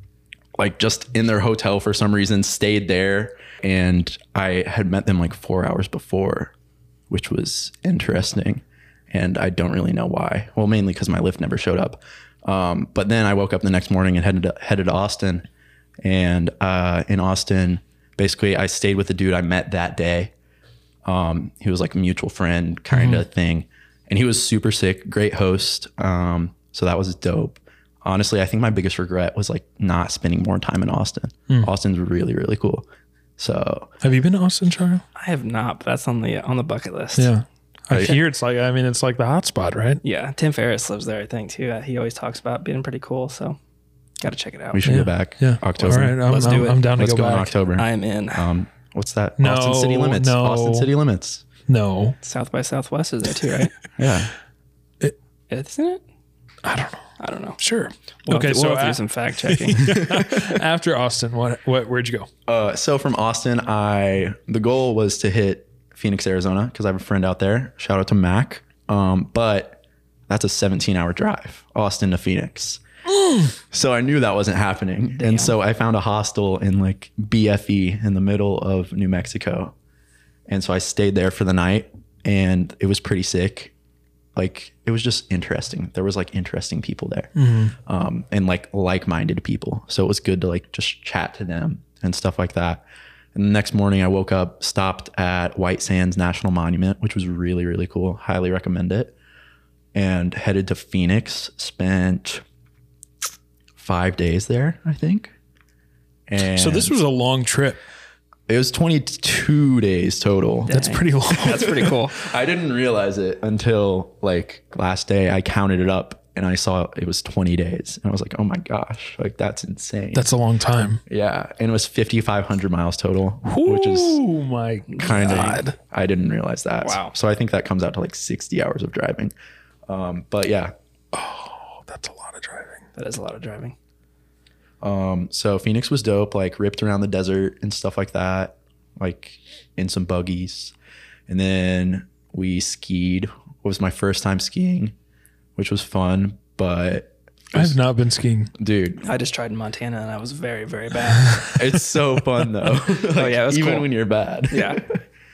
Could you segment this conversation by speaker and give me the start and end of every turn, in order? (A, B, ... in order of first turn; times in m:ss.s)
0:00.6-0:06.5 A
0:07.1-0:15.5 A
0:16.0-0:20.3 A
0:21.0-0:32.8 A
0:22.9-0:23.2 B
0:33.4-0:33.9 A
0:34.0-0:35.0 B
0:35.1-0:37.3 C
0:37.2-0:40.0 B
0:37.9-0:38.1 A
0:40.0-0:43.6 C
0:44.2-0:44.8 C
0:44.7-0:51.4 A
0:44.8-0:47.5 B
0:46.3-0:46.8 C
0:47.8-0:48.5 C
0:49.4-0:50.9 B
0:51.7-0:52.2 B
0:52.2-0:53.7 C
0:54.0-0:54.3 A
0:55.5-0:56.0 C
0:56.6-1:02.3 B
0:57.2-0:57.6 C
0:58.3-1:00.4 C
1:02.5-1:12.8 A
1:13.2-1:13.5 B
1:13.5-1:19.7 A
1:15.2-1:15.5 C
1:20.5-1:23.7 A
1:24.3-1:27.3 A
1:27.4-1:27.7 B
1:27.8-1:39.1 A
1:39.9-1:42.4 A
1:43.8-1:45.3 A
1:46.3-1:47.0 A
1:46.6-1:47.8 B
1:48.5-2:00.3 A
1:50.7-1:51.8 B
1:50.7-1:52.2 C
2:00.1-2:01.0 B
2:01.0-2:04.2 A
2:03.4-2:05.7 B
2:04.9-2:05.6 C
2:05.0-2:09.3 A
2:06.8-2:07.1 C
2:09.9-2:10.7 A
2:11.1-2:12.8 B
2:13.0-2:13.7 C
2:14.8-2:20.7 A
2:21.3-2:24.9 A
2:25.6-2:27.8 A
2:27.5-2:28.5 B
2:28.6-2:29.1 A
2:29.0-2:31.5 C
2:31.6-2:35.0 A
2:33.1-2:33.9 C
2:34.5-2:34.8 C